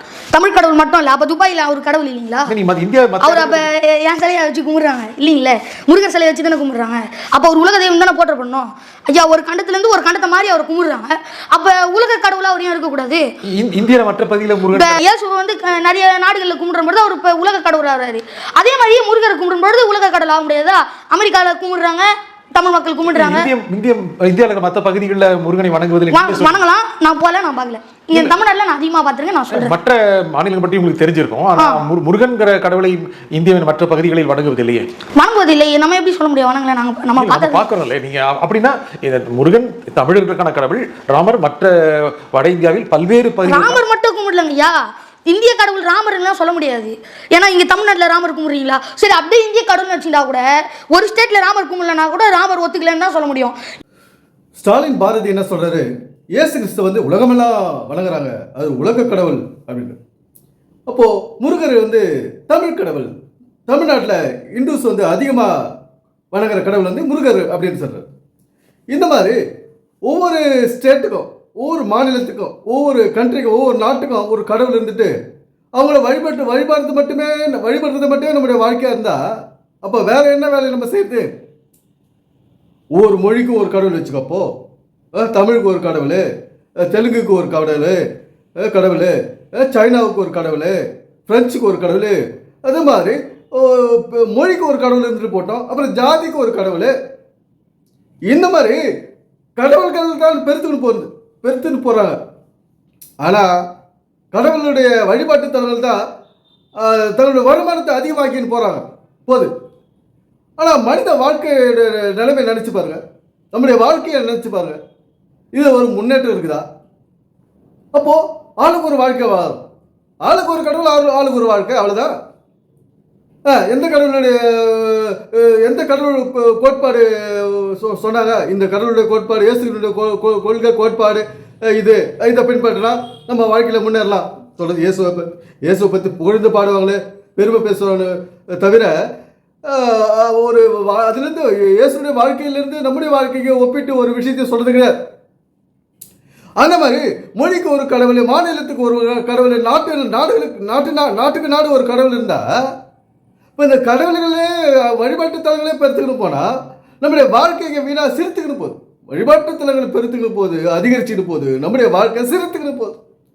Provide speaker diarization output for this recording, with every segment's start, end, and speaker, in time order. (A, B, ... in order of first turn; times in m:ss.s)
0:00.3-0:02.5 A
0:02.5-0:03.7 B
0:03.2-0:13.2 A
0:13.6-0:15.0 B
0:14.7-0:23.5 A
0:23.1-0:26.6 B
0:26.1-0:29.7 A
0:28.1-0:28.4 B
0:29.5-0:34.9 B
0:31.6-0:31.8 A
0:35.2-0:37.6 A
0:37.2-0:43.8 B
0:43.4-0:53.6 A
0:54.6-1:00.0 C
1:00.9-1:05.5 C
1:06.3-1:08.1 C
1:08.9-1:09.4 C
1:10.0-1:15.1 C
1:15.8-1:19.2 C
1:19.8-1:21.3 C
1:22.9-1:24.5 C
1:25.2-1:26.2 C
1:26.9-1:28.0 C
1:28.6-1:36.9 C
1:38.3-1:38.8 C
1:39.6-1:42.2 C
1:43.2-1:43.5 C
1:44.3-1:46.0 C
1:46.8-1:49.5 C
1:50.6-1:53.0 C
1:53.5-1:54.8 C
1:55.5-1:56.6 C
1:57.9-1:59.6 C
2:00.2-2:02.1 C
2:03.5-2:18.9 C
2:19.6-2:24.9 C
2:26.6-2:32.4 C
2:33.6-2:36.4 C
2:37.0-2:43.0 C